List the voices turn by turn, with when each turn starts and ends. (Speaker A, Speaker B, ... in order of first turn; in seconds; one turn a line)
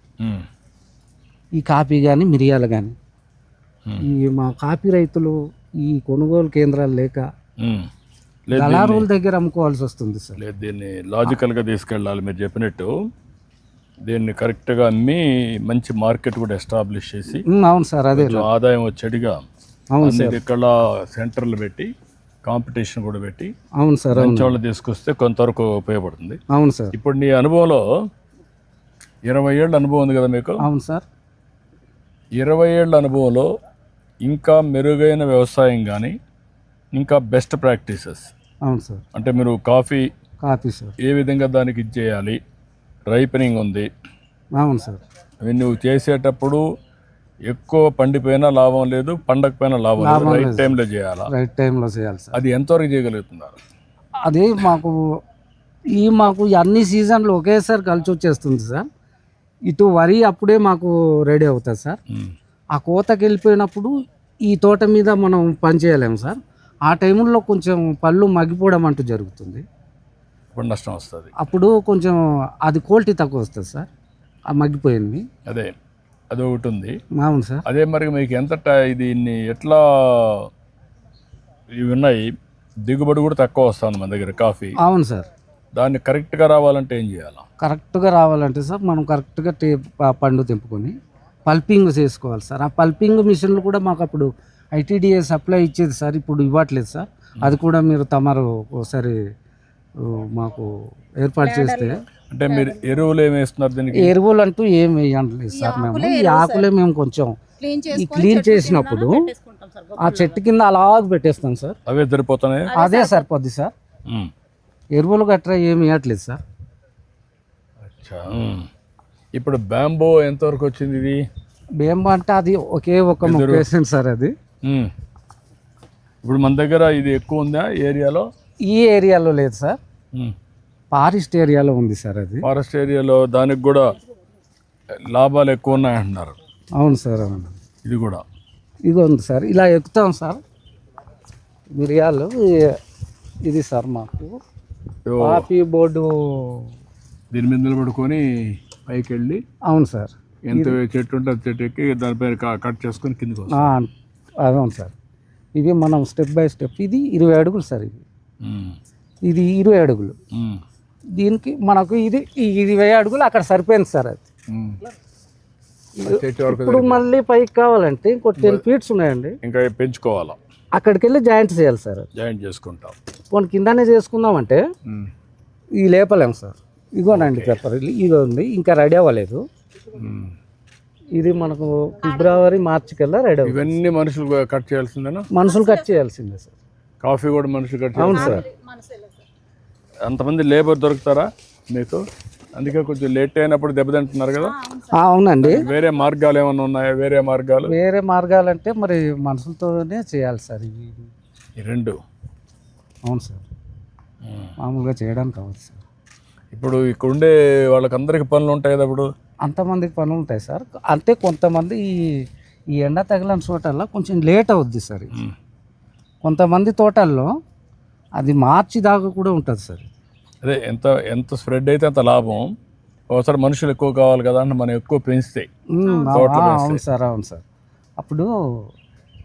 Speaker A: 0.2-0.5
Speaker B: 1.6-3.0
Speaker B: 4.0-7.3
Speaker A: 7.6-7.9
Speaker A: 8.5-9.1
Speaker B: 8.6-10.4
Speaker A: 10.4-13.1
Speaker A: 14.0-17.4
Speaker B: 17.5-18.5
Speaker A: 18.1-19.5
Speaker B: 19.9-20.4
Speaker A: 20.0-21.9
Speaker A: 22.4-23.5
Speaker B: 23.8-24.6
Speaker A: 24.1-26.4
Speaker B: 26.5-26.9
Speaker A: 26.9-27.9
Speaker A: 29.3-30.6
Speaker B: 30.6-31.1
Speaker A: 32.4-33.5
Speaker A: 34.2-36.2
Speaker A: 36.9-38.3
Speaker B: 38.6-39.0
Speaker A: 39.1-40.1
Speaker B: 40.4-41.0
Speaker A: 41.0-42.4
Speaker A: 43.1-43.9
Speaker B: 44.6-45.0
Speaker A: 45.4-46.6
Speaker A: 47.5-51.3
Speaker B: 50.0-50.8
Speaker B: 51.3-52.4
Speaker A: 52.4-53.6
Speaker B: 54.2-55.2
Speaker B: 55.9-58.9
Speaker B: 59.7-62.0
Speaker A: 62.1-62.4
Speaker B: 62.7-63.9
Speaker B: 64.5-69.7
Speaker A: 70.5-71.3
Speaker B: 71.4-73.9
Speaker B: 74.5-75.3
Speaker A: 75.5-75.7
Speaker A: 76.3-77.0
Speaker B: 77.2-77.6
Speaker A: 77.7-80.5
Speaker A: 81.7-84.8
Speaker B: 84.8-85.3
Speaker A: 85.8-87.4
Speaker B: 87.6-99.3
Speaker B: 100.0-102.0
Speaker C: 101.4-103.0
Speaker A: 102.3-104.2
Speaker B: 103.9-107.4
Speaker C: 105.5-106.7
Speaker C: 107.6-110.4
Speaker B: 107.9-109.3
Speaker B: 110.0-111.8
Speaker A: 111.9-112.7
Speaker C: 112.7-113.3
Speaker B: 112.7-113.7
Speaker A: 114.1-114.3
Speaker B: 115.0-116.4
Speaker A: 117.8-118.7
Speaker A: 119.4-121.2
Speaker B: 121.8-124.3
Speaker A: 123.2-123.7
Speaker A: 124.6-124.9
Speaker A: 126.2-128.3
Speaker B: 128.7-129.8
Speaker B: 130.9-132.5
Speaker A: 132.4-133.9
Speaker A: 135.1-136.4
Speaker B: 136.8-137.6
Speaker A: 137.8-138.2
Speaker B: 138.9-140.4
Speaker B: 141.7-142.8
Speaker B: 143.4-144.4
Speaker A: 145.1-145.5
Speaker B: 145.2-146.7
Speaker A: 147.3-149.4
Speaker B: 149.7-150.8
Speaker A: 150.5-153.7
Speaker B: 153.5-154.9
Speaker B: 155.6-158.0
Speaker A: 158.4-158.8
Speaker B: 159.2-160.2
Speaker A: 160.3-160.6
Speaker B: 161.2-164.2
Speaker A: 164.5-164.8
Speaker B: 166.0-169.4
Speaker A: 166.0-167.0
Speaker A: 169.4-170.4
Speaker B: 170.8-172.1
Speaker A: 172.2-173.0
Speaker B: 173.3-174.6
Speaker B: 175.8-179.4
Speaker A: 177.1-177.6
Speaker A: 180.0-180.4
Speaker B: 181.2-183.8
Speaker C: 182.0-182.5
Speaker A: 183.4-185.3
Speaker B: 185.3-186.6
Speaker C: 185.4-185.9
Speaker A: 187.0-188.4
Speaker B: 187.9-188.4
Speaker C: 188.0-189.3
Speaker A: 190.1-192.0
Speaker A: 192.6-194.5
Speaker C: 194.4-196.1
Speaker B: 194.9-195.7
Speaker A: 195.4-197.7
Speaker B: 197.7-201.1
Speaker A: 201.6-202.0
Speaker B: 203.1-203.4
Speaker A: 204.2-204.5
Speaker B: 204.6-205.8
Speaker A: 206.5-209.1
Speaker B: 209.4-215.2
Speaker B: 216.2-217.3
Speaker B: 218.2-219.9
Speaker A: 220.4-222.6
Speaker A: 223.1-225.5
Speaker B: 225.7-227.4
Speaker C: 225.8-226.2
Speaker A: 226.1-226.8
Speaker B: 228.0-228.7